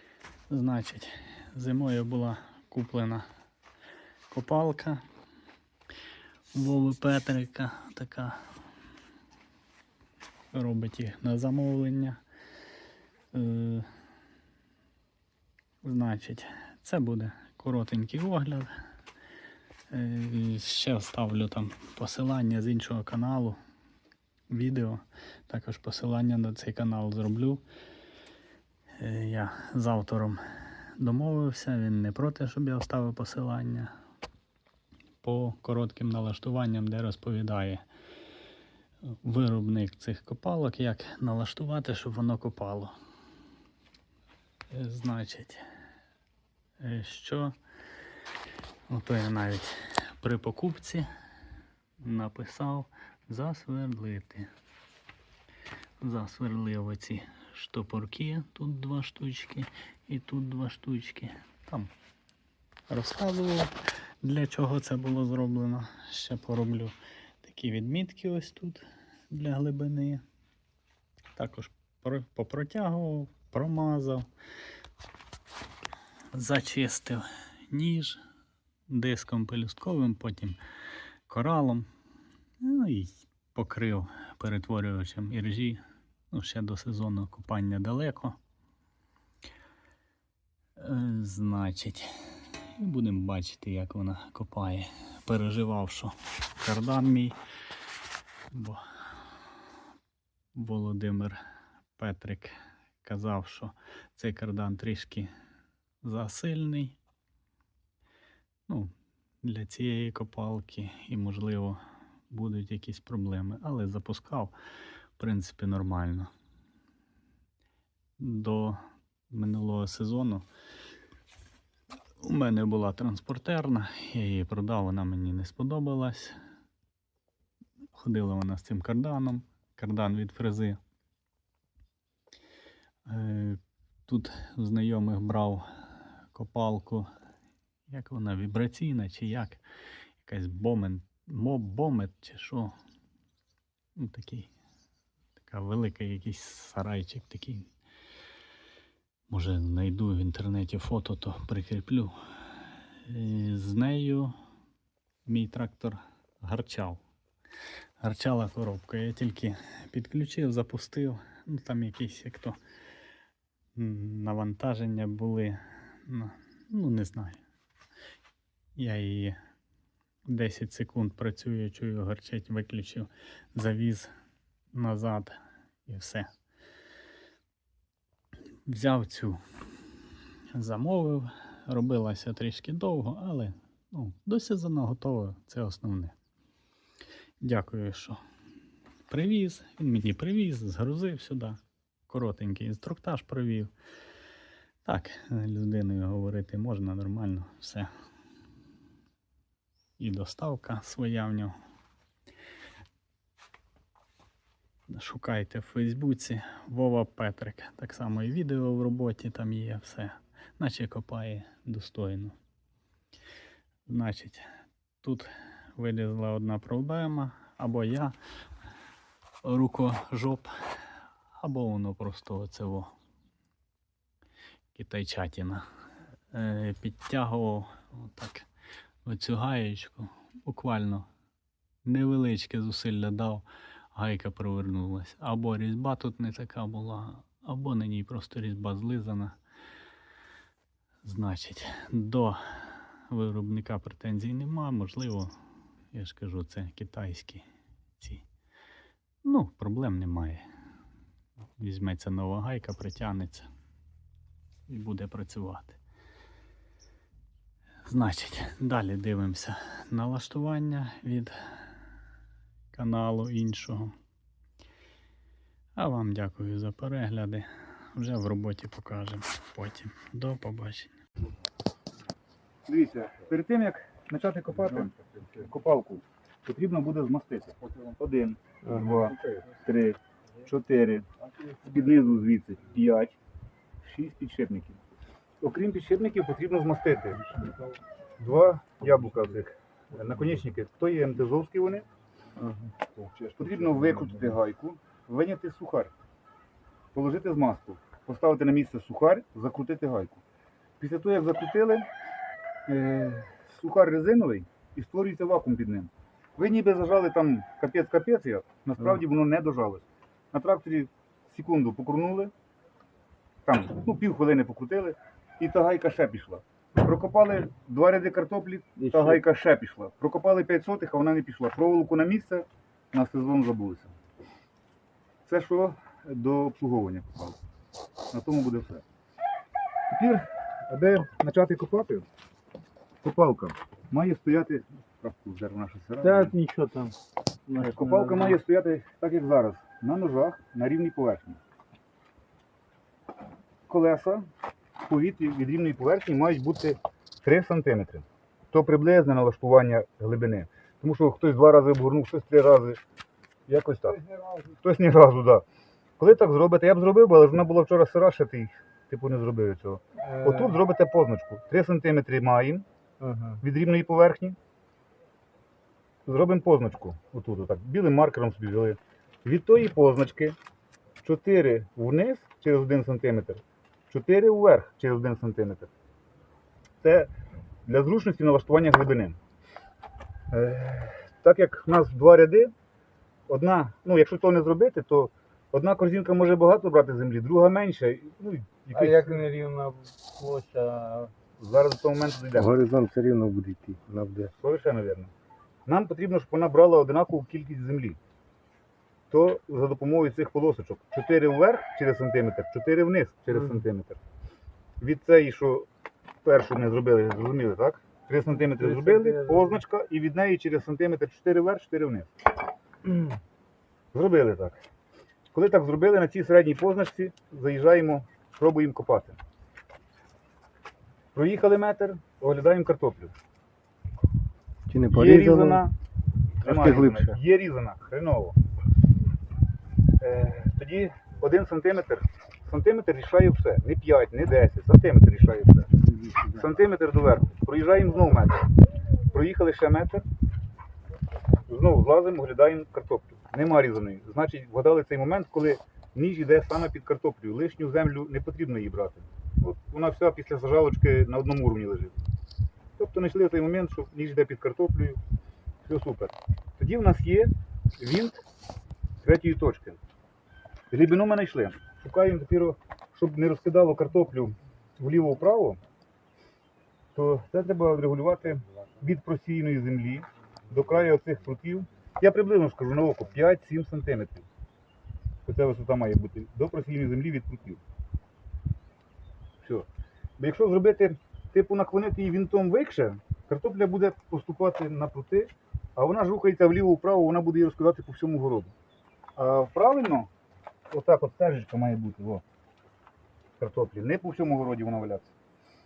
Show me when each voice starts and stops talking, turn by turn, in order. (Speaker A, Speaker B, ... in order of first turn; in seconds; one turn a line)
Speaker A: 0.5-3.2
Speaker A: 4.3-5.0
Speaker A: 6.5-8.4
Speaker A: 10.5-12.2
Speaker A: 13.3-13.9
Speaker A: 15.8-18.7
Speaker A: 19.9-23.6
Speaker A: 24.5-27.6
Speaker A: 29.0-30.4
Speaker A: 31.0-33.9
Speaker A: 35.2-37.8
Speaker A: 39.2-42.9
Speaker A: 44.7-45.6
Speaker A: 46.8-47.5
Speaker A: 48.9-51.1
Speaker A: 52.0-54.5
Speaker A: 56.0-61.9
Speaker A: 62.9-63.7
Speaker A: 64.2-70.2
Speaker A: 71.3-74.3
Speaker A: 76.3-78.2
Speaker A: 78.9-80.6
Speaker A: 81.3-81.9
Speaker A: 82.6-88.4
Speaker A: 90.8-92.1
Speaker A: 92.8-97.4
Speaker A: 98.5-98.8
Speaker A: 100.5-101.4
Speaker A: 102.0-105.3
Speaker A: 106.0-107.0
Speaker A: 109.4-114.5
Speaker A: 115.2-116.3
Speaker A: 118.2-120.5
Speaker A: 122.2-126.4
Speaker A: 127.9-130.8
Speaker A: 133.1-135.7
Speaker A: 136.3-137.1
Speaker A: 137.9-139.6
Speaker A: 140.2-142.8
Speaker A: 144.0-144.5
Speaker A: 145.4-147.7
Speaker A: 149.3-152.2
Speaker A: 153.0-154.3
Speaker A: 155.3-157.0
Speaker A: 158.0-162.6
Speaker A: 163.8-167.4
Speaker A: 168.8-169.4
Speaker A: 170.3-174.1
Speaker A: 174.7-175.4
Speaker A: 175.9-176.3
Speaker A: 178.7-179.4
Speaker A: 180.5-186.1
Speaker A: 187.4-188.2
Speaker A: 189.1-193.7
Speaker A: 194.8-197.9
Speaker A: 200.0-201.6
Speaker A: 204.9-212.3
Speaker A: 213.9-214.5
Speaker A: 215.0-218.2
Speaker A: 219.4-220.5
Speaker A: 221.4-222.9
Speaker A: 224.7-225.7
Speaker A: 226.3-228.5
Speaker A: 229.1-231.1
Speaker A: 231.8-239.4
Speaker A: 241.0-245.3
Speaker A: 245.9-247.5
Speaker A: 248.0-248.2
Speaker A: 249.2-250.5
Speaker A: 251.6-253.5
Speaker A: 254.7-255.8
Speaker A: 257.9-261.3
Speaker A: 262.7-263.9
Speaker A: 265.8-270.9
Speaker B: 272.7-281.1
Speaker C: 278.6-279.0
Speaker B: 281.6-283.2
Speaker B: 283.8-284.8
Speaker B: 285.4-287.2
Speaker B: 288.2-291.9
Speaker C: 292.4-292.7
Speaker B: 293.0-295.9
Speaker B: 296.9-300.2
Speaker B: 300.8-301.9
Speaker B: 302.7-312.3
Speaker B: 313.5-323.9
Speaker C: 318.8-319.2
Speaker B: 325.3-327.4
Speaker B: 328.1-328.8
Speaker B: 329.9-332.1
Speaker B: 333.0-336.4
Speaker C: 336.0-337.0
Speaker C: 337.5-338.4
Speaker B: 337.6-341.4
Speaker B: 343.7-344.3
Speaker B: 344.8-352.8
Speaker B: 353.5-354.0
Speaker B: 354.5-355.4
Speaker B: 356.0-362.6
Speaker C: 360.0-360.6
Speaker C: 363.0-363.4
Speaker B: 363.4-364.4
Speaker B: 366.1-370.4
Speaker B: 371.0-375.7
Speaker B: 376.8-377.1
Speaker B: 377.7-379.2
Speaker B: 380.3-382.5
Speaker B: 383.3-389.2
Speaker C: 388.7-391.1
Speaker B: 391.4-392.6
Speaker D: 392.4-394.3
Speaker B: 394.4-395.1
Speaker B: 395.7-398.0
Speaker B: 399.1-404.0
Speaker B: 404.8-405.7
Speaker B: 406.2-412.1
Speaker C: 408.4-409.6
Speaker B: 413.9-414.6
Speaker B: 415.3-419.2
Speaker B: 421.1-423.1
Speaker D: 424.7-425.6
Speaker B: 424.9-425.7
Speaker D: 426.4-427.1
Speaker B: 426.4-428.4
Speaker B: 430.0-435.7
Speaker C: 435.8-436.5
Speaker B: 436.3-438.5
Speaker B: 439.1-440.1
Speaker B: 441.5-452.0
Speaker B: 452.8-455.0
Speaker B: 455.7-458.2
Speaker B: 459.0-459.8
Speaker B: 460.7-465.6
Speaker B: 466.9-474.2
Speaker B: 475.2-477.6
Speaker B: 480.2-488.5
Speaker B: 489.2-490.1
Speaker B: 490.7-492.2
Speaker B: 493.4-495.1